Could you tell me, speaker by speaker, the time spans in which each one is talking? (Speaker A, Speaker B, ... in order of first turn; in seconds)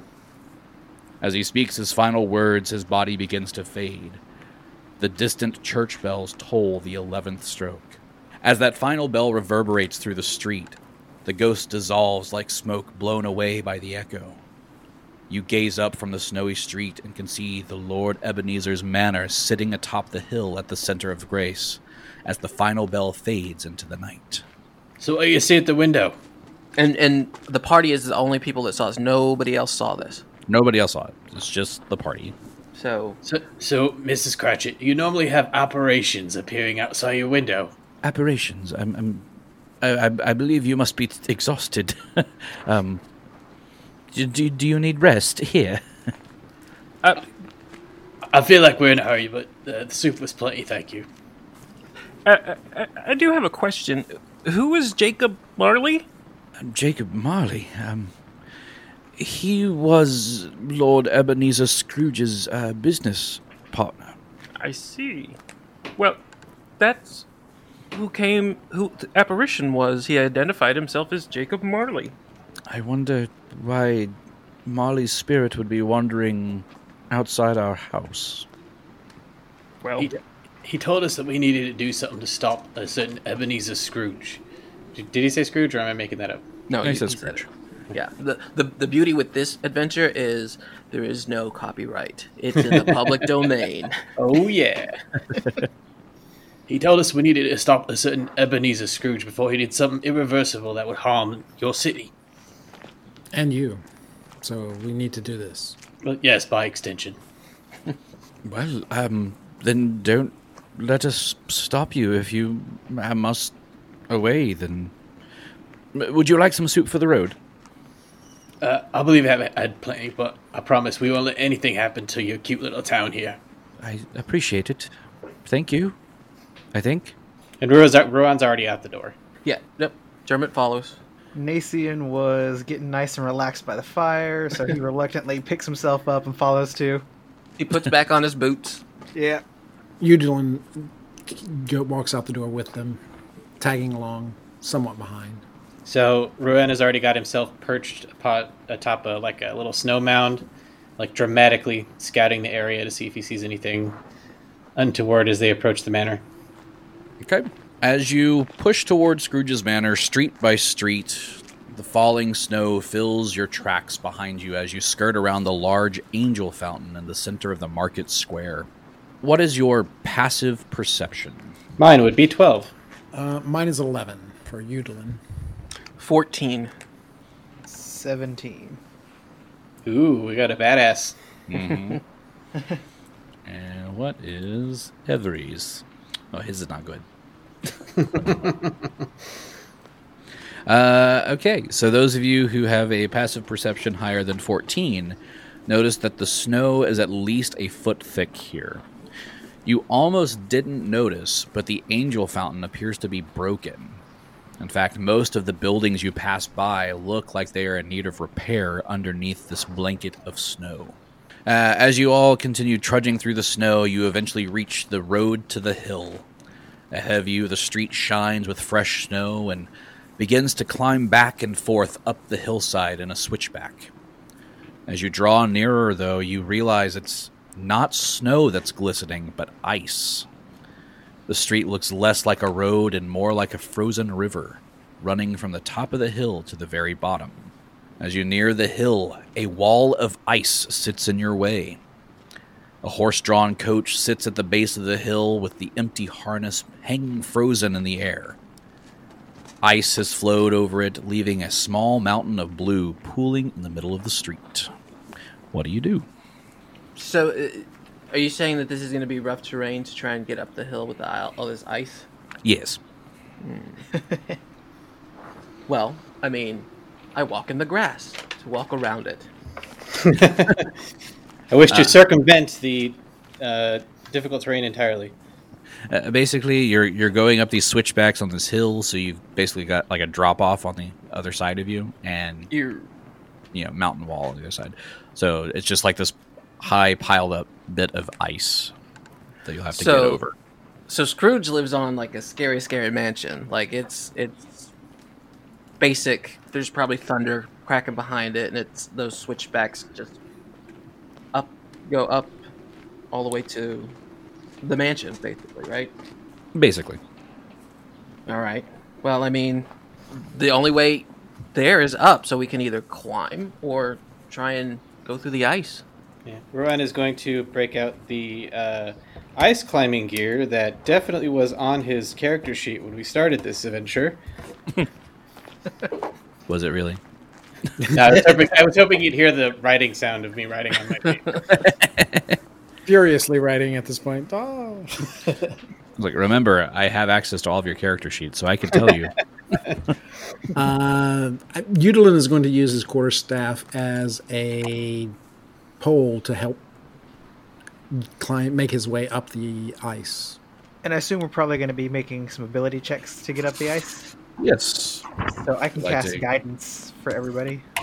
Speaker A: 1.2-4.2, 5.0-14.4, 15.3-24.4, 30.5-32.4, 38.0-39.3, 39.8-43.0, 44.1-45.8, 56.6-58.1, 59.2-64.2, 72.7-74.1, 74.7-78.5, 86.8-87.5, 108.5-113.5, 114.1-114.9, 115.9-117.4, 123.8-124.9, 125.5-126.0, 126.7-127.2, 157.2-168.7, 169.2-171.6, 181.5-182.0, 183.5-187.1, 190.7-198.8, 199.7-204.0, 204.6-216.3, 216.9-223.9, 224.9-230.3, 231.3-241.8, 242.8-248.4, 249.6-254.7, 255.5-256.1, 262.4-262.8, 271.7-271.9, 275.9-282.5, 283.5-288.7, 289.4-290.3, 306.6-307.0, 326.5-327.0, 331.6-332.4, 336.0-339.2, 354.4-355.1, 355.8-356.2
Speaker B: 25.0-26.2, 33.2-37.7, 48.3-51.1, 80.0-84.4, 84.9-86.5, 92.6-93.0, 94.2-95.0, 96.7-102.1, 106.0-107.2, 118.6-123.4, 127.6-129.2, 145.8-150.5, 151.0-154.0, 154.8-156.2, 171.8-172.7, 179.8-181.2, 188.1-188.7, 270.0-270.7, 271.5-275.1, 316.3-324.2, 327.9-331.4
Speaker C: 26.8-30.2, 32.8-33.2, 86.7-94.1, 129.4-131.0, 137.6-138.8, 176.0-176.7, 257.0-262.1, 263.4-263.8, 265.7-269.3, 282.5-282.9, 289.7-290.2, 290.9-294.7, 295.8-300.2, 301.3-302.4, 303.1-303.9, 304.6-305.9, 308.3-315.8
Speaker D: 52.2-56.1, 64.6-65.4, 66.0-66.2, 66.8-67.2, 67.9-72.2, 79.8-80.1
Speaker E: 103.3-103.8, 104.4-105.8, 140.0-143.0, 143.6-145.4, 173.1-175.2, 332.9-335.5, 340.5-345.1, 345.8-346.6, 347.9-350.4
Speaker F: 131.3-137.1, 139.2-139.4, 177.7-178.8, 263.9-264.4, 350.8-354.1, 355.3-357.6